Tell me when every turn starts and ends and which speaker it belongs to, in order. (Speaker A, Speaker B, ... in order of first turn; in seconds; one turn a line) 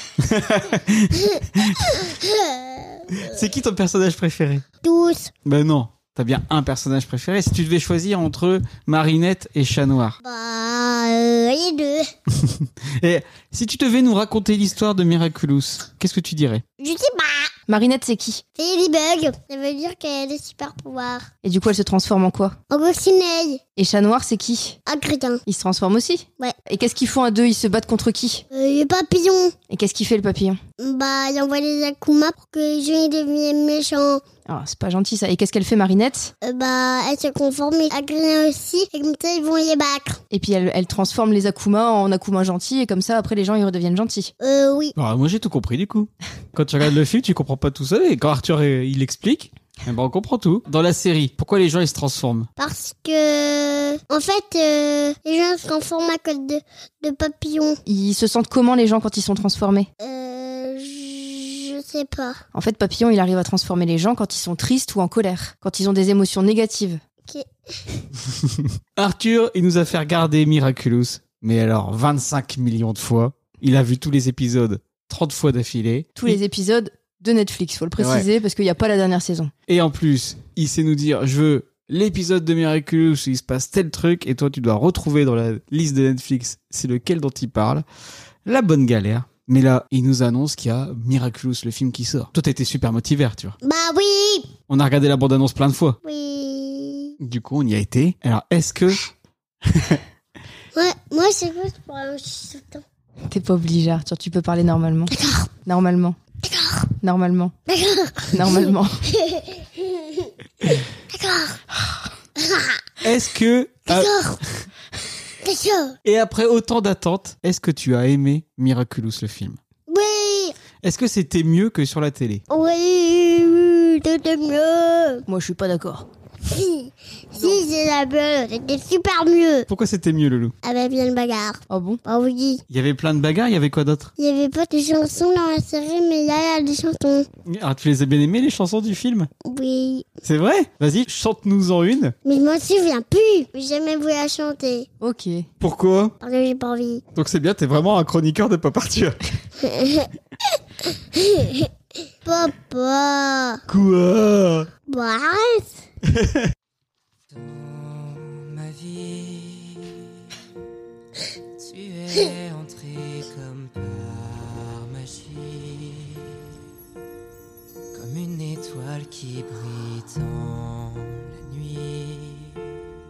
Speaker A: 0.2-2.0
Speaker B: 1.2-3.4
Speaker A: 3.2-4.6
Speaker B: 4.8-5.3
Speaker A: 5.5-10.2
Speaker B: 10.2-12.1
Speaker A: 12.3-16.6
Speaker B: 16.8-17.5
Speaker C: 17.7-18.4
Speaker B: 18.6-21.3
Speaker C: 21.4-22.6
Speaker B: 22.7-23.6
Speaker C: 23.8-24.8
Speaker B: 24.9-25.4
Speaker C: 25.5-28.4
Speaker B: 28.5-29.5
Speaker C: 29.7-30.6
Speaker B: 30.8-34.2
Speaker C: 34.5-36.3
Speaker B: 36.4-40.2
Speaker C: 40.3-44.3
Speaker B: 44.4-45.0
Speaker A: 45.0-52.5
Speaker B: 52.6-57.8
Speaker C: 57.9-59.9
Speaker B: 60.0-62.4
Speaker C: 62.5-67.0
Speaker B: 67.3-67.8
Speaker A: 68.4-76.4
Speaker C: 76.2-79.5
Speaker A: 78.0-78.3
Speaker A: 79.7-87.8
Speaker A: 88.5-93.6
Speaker B: 93.6-94.5
Speaker A: 94.7-96.0
Speaker B: 96.0-97.2
Speaker A: 97.2-99.1
Speaker A: 99.7-100.0
Speaker B: 100.8-102.8
Speaker C: 103.3-105.1
Speaker B: 105.1-105.5
Speaker C: 105.7-106.2
Speaker B: 106.5-106.9
Speaker C: 107.0-107.5
Speaker B: 107.7-111.6
Speaker C: 108.3-109.0
Speaker B: 112.4-112.8
Speaker A: 113.0-114.7
Speaker B: 113.9-114.4
Speaker B: 115.4-116.0
Speaker A: 116.0-119.6
Speaker B: 119.9-120.6
Speaker A: 120.8-122.4
Speaker B: 122.5-125.2
Speaker C: 125.3-126.1
Speaker B: 126.5-129.7
Speaker A: 129.7-130.5
Speaker B: 130.6-132.6
Speaker C: 131.7-132.0
Speaker A: 132.7-134.1
Speaker B: 134.2-137.3
Speaker A: 137.5-139.3
Speaker B: 139.5-140.1
Speaker A: 140.2-142.2
Speaker B: 142.2-144.9
Speaker C: 145.0-145.5
Speaker A: 145.6-146.2
Speaker B: 146.2-147.0
Speaker A: 147.2-149.2
Speaker B: 149.6-150.1
Speaker B: 151.0-151.7
Speaker B: 152.2-153.6
Speaker A: 153.7-154.7
Speaker B: 154.9-155.8
Speaker A: 156.1-156.5
Speaker D: 157.8-159.9
Speaker D: 161.8-164.7
Speaker D: 168.0-171.0
Speaker D: 171.6-172.2